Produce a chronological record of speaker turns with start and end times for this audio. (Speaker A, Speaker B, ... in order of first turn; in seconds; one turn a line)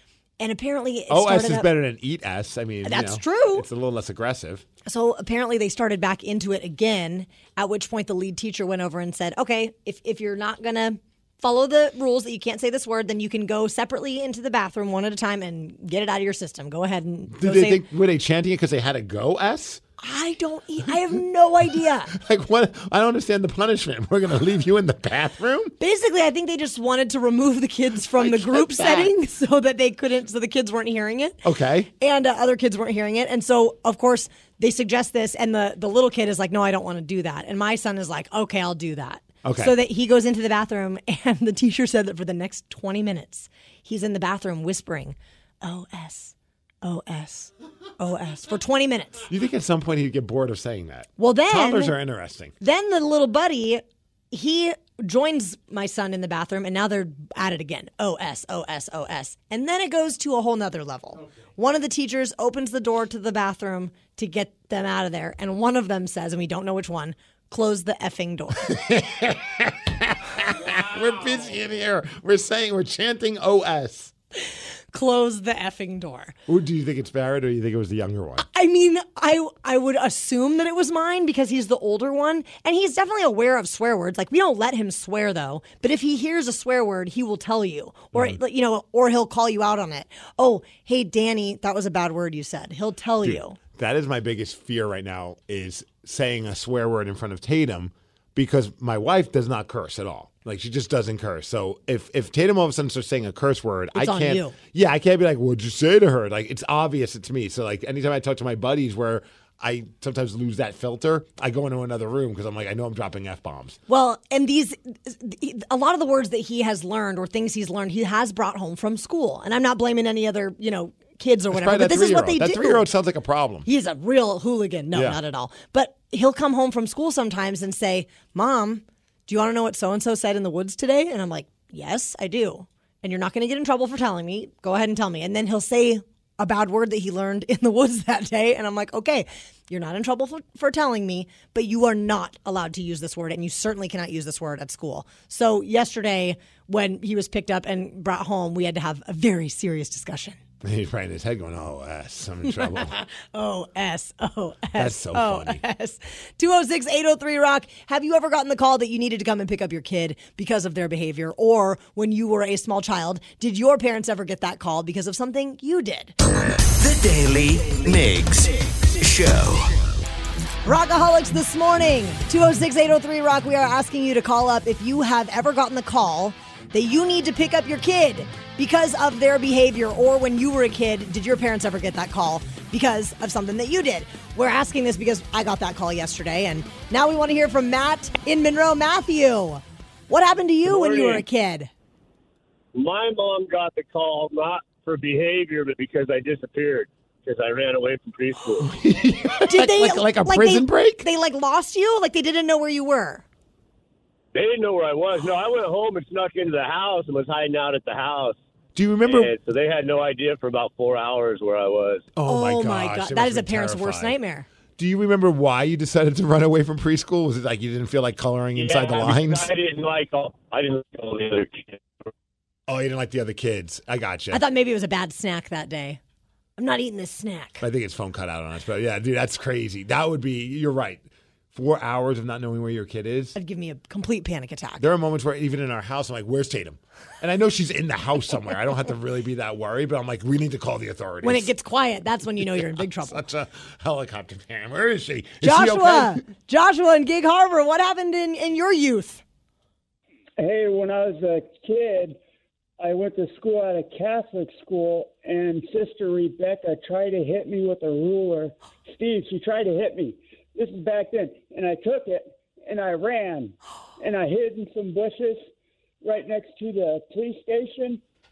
Speaker A: 0.4-1.7
Speaker B: 1.1-4.6
Speaker A: 2.8-3.7
Speaker A: 4.8-17.8
Speaker B: 17.3-19.8
Speaker A: 20.0-22.1
Speaker B: 22.1-25.7
Speaker A: 25.8-31.4
Speaker B: 28.2-29.1
Speaker B: 31.4-31.9
Speaker A: 32.0-49.2
Speaker B: 39.4-39.7
Speaker B: 49.3-52.5
Speaker A: 51.2-52.0
Speaker A: 52.6-68.7
Speaker B: 68.7-74.1
Speaker A: 74.9-76.3
Speaker B: 76.5-78.4
Speaker A: 78.4-93.6
Speaker B: 88.1-88.4
Speaker B: 93.2-113.8
Speaker A: 103.9-104.5
Speaker A: 113.9-122.9
Speaker B: 121.5-123.7
Speaker A: 123.6-150.4
Speaker B: 124.9-125.2
Speaker B: 150.6-152.9
Speaker A: 152.4-166.1
Speaker B: 154.7-155.6
Speaker C: 166.8-169.7
Speaker A: 170.6-191.7
Speaker C: 190.6-191.2
Speaker C: 192.7-198.8
Speaker B: 198.6-201.1
Speaker A: 199.4-203.2
Speaker C: 204.3-208.4
Speaker B: 208.7-209.3
Speaker C: 209.0-212.0
Speaker B: 212.2-214.2
Speaker A: 212.2-214.4
Speaker B: 214.8-219.5
Speaker C: 218.5-222.1
Speaker B: 222.7-224.4
Speaker A: 224.3-226.0
Speaker A: 226.6-227.6
Speaker B: 227.6-233.3
Speaker A: 233.3-234.8
Speaker B: 234.8-241.5
Speaker A: 241.2-243.2
Speaker B: 242.5-246.2
Speaker A: 245.4-249.2
Speaker D: 250.4-252.2
Speaker D: 252.8-265.4
Speaker D: 266.0-268.0